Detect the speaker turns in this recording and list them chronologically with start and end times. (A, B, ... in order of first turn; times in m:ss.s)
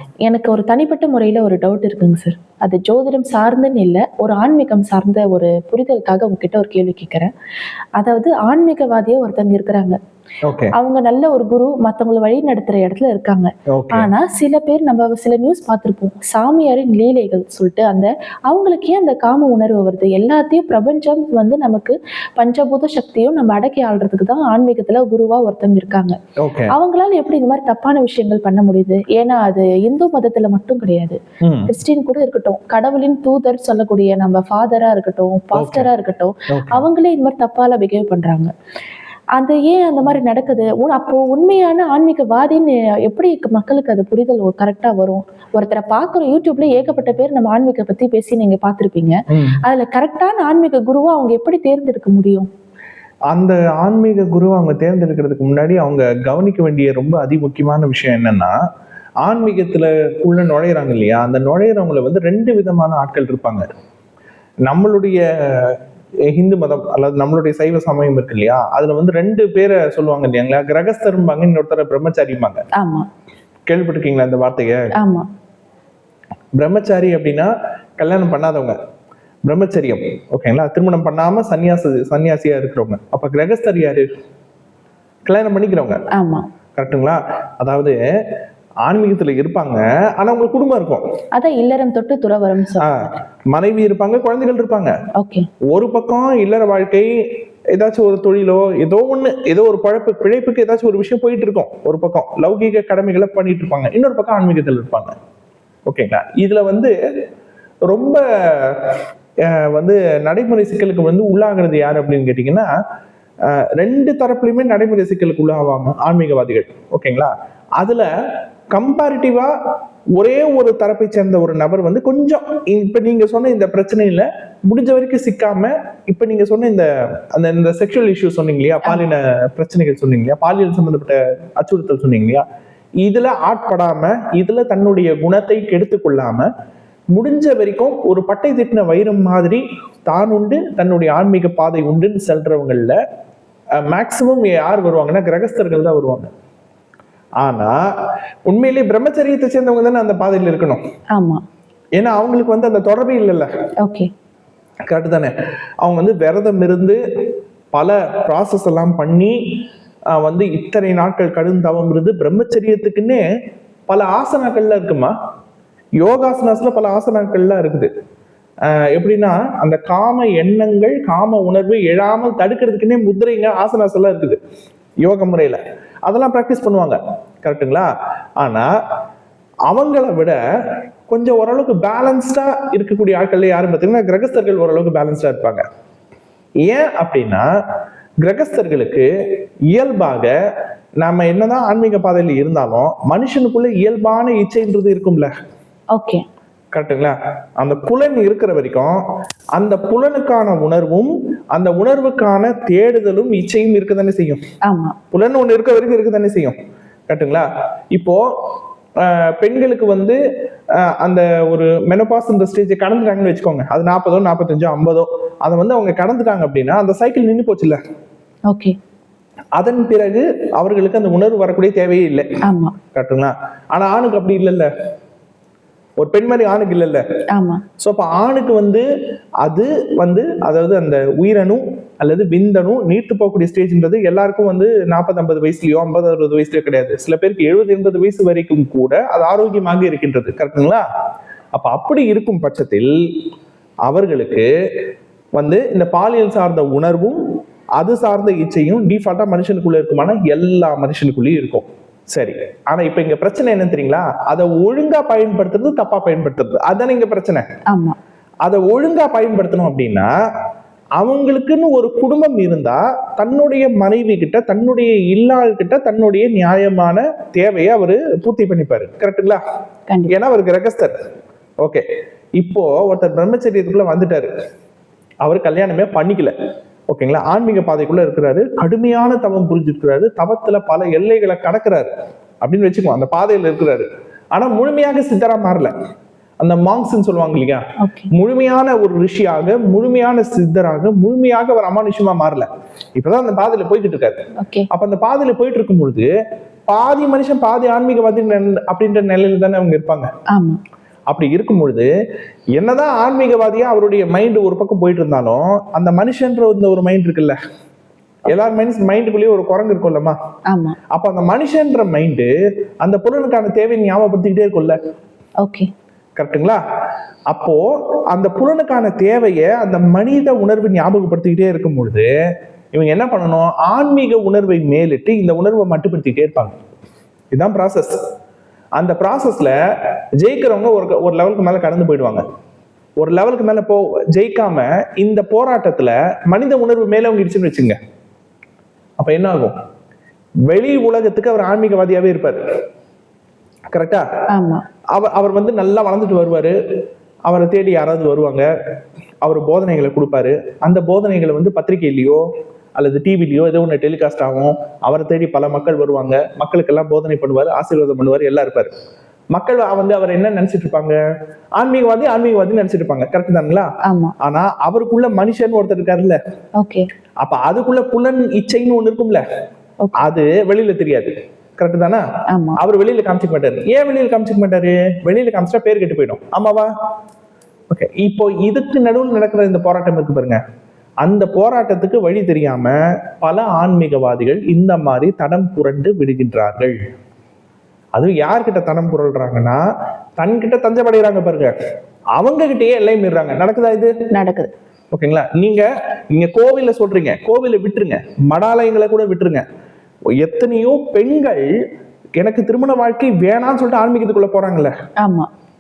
0:00.3-0:07.3 A
0:08.0-0:10.0 A
0:10.4-0:10.7 B
0:10.8-0:26.2 A
0:13.7-0:14.1 B
0:26.4-0:26.7 B
0:26.7-0:38.5 A
0:31.4-0:31.7 B
0:35.5-0:35.9 B
0:36.5-0:36.9 B
0:39.4-0:52.5 A
0:49.3-0:49.6 B
0:53.3-0:58.6 B
0:59.2-1:03.7 B
1:04.7-1:05.8 B
1:06.3-1:12.6 B
1:12.8-1:13.1 A
1:13.7-1:14.9 B
1:15.0-1:15.3 A
1:16.6-1:18.8 B
1:19.5-1:24.1 B
1:25.3-1:26.0 B
1:26.1-1:26.5 A
1:26.8-1:28.0 B
1:28.9-1:31.0 B
1:31.4-1:33.2 A
1:32.8-1:34.9 B
1:35.2-1:35.5 A
1:35.7-1:37.1 B
1:37.8-1:45.2 B
1:45.9-1:46.9 B
1:47.9-1:52.7 B
1:53.5-1:58.1 B
1:58.8-1:59.5 B
2:00.2-2:12.4 B
2:13.0-2:16.5 B
2:17.2-2:23.0 B
2:23.8-2:26.3 B
2:27.4-2:27.8 B
2:28.5-2:30.8 B
2:31.2-2:31.4 A
2:32.0-2:33.5 B
2:33.8-2:34.1 A
2:34.9-2:37.0 B
2:37.7-2:39.4 B
2:40.1-2:43.2 B
2:43.9-2:45.1 B
2:46.0-2:47.9 B
2:48.7-2:54.4 B
2:55.0-2:57.9 B
2:58.4-2:58.7 B
2:59.7-3:00.4 B
3:01.1-3:05.6 B
3:06.6-3:07.5 B
3:08.2-3:09.1 B
3:09.7-3:10.3 B
3:11.0-3:15.3 B
3:16.0-3:16.2 A
3:16.8-3:19.0 B
3:19.6-3:24.4 B
3:24.7-3:25.0 A
3:25.1-3:26.6 B
3:27.1-3:28.2 B
3:29.0-3:30.2 B
3:30.8-3:37.8 B
3:38.5-3:38.8 A
3:39.6-3:42.3 B
3:42.4-3:42.7 A
3:42.9-3:44.7 B
3:46.0-3:47.0 B
3:47.3-3:47.6 A
3:47.8-3:48.9 B
3:49.4-4:00.8 B
4:01.6-4:02.9 B
4:03.9-4:04.5 B
4:05.4-4:07.2 B
4:07.8-4:17.5 B
4:17.7-4:18.0 A
4:18.4-4:20.1 B
4:21.0-4:29.4 B
4:30.1-4:30.9 B
4:32.4-4:34.3 B
4:35.2-4:36.3 B
4:36.9-4:41.9 B
4:42.4-4:45.7 B
4:46.4-4:47.6 B
4:47.8-4:48.1 A
4:48.1-4:54.2 B
4:54.4-4:54.7 A
4:54.7-4:56.1 B
4:56.7-5:00.1 B
5:00.3-5:00.6 A
5:01.1-5:01.9 B
5:02.6-5:07.4 B
5:08.3-5:10.2 B
5:10.5-5:10.8 A
5:10.9-5:12.3 B
5:12.8-5:14.8 B
5:15.4-5:15.7 A
5:16.2-5:16.6 B
5:17.3-5:22.1 B
5:22.7-5:26.6 B
5:27.3-5:28.0 B
5:28.8-5:29.6 B
5:30.2-5:32.2 B
5:33.0-5:37.8 B
5:39.0-5:39.6 B
5:40.5-5:42.4 B
5:43.7-5:44.1 B
5:44.3-5:44.6 A
5:44.9-5:46.6 B
5:47.3-5:48.5 B
5:49.2-5:52.2 B
5:52.8-5:58.7 B
5:59.3-6:01.0 B
6:01.6-6:03.7 B
6:03.8-6:04.2 A
6:04.2-6:06.2 B
6:06.6-6:06.9 A
6:07.2-6:09.2 B
6:10.0-6:12.0 B
6:12.3-6:12.6 A
6:12.6-6:16.7 B
6:17.7-6:20.4 B
6:21.0-6:26.8 B
6:28.0-6:29.6 B
6:30.2-6:31.6 B
6:32.2-6:33.9 B
6:34.1-6:34.5 A
6:34.9-6:39.4 B
6:40.2-6:41.5 B
6:42.2-6:44.7 B
6:45.0-6:45.3 A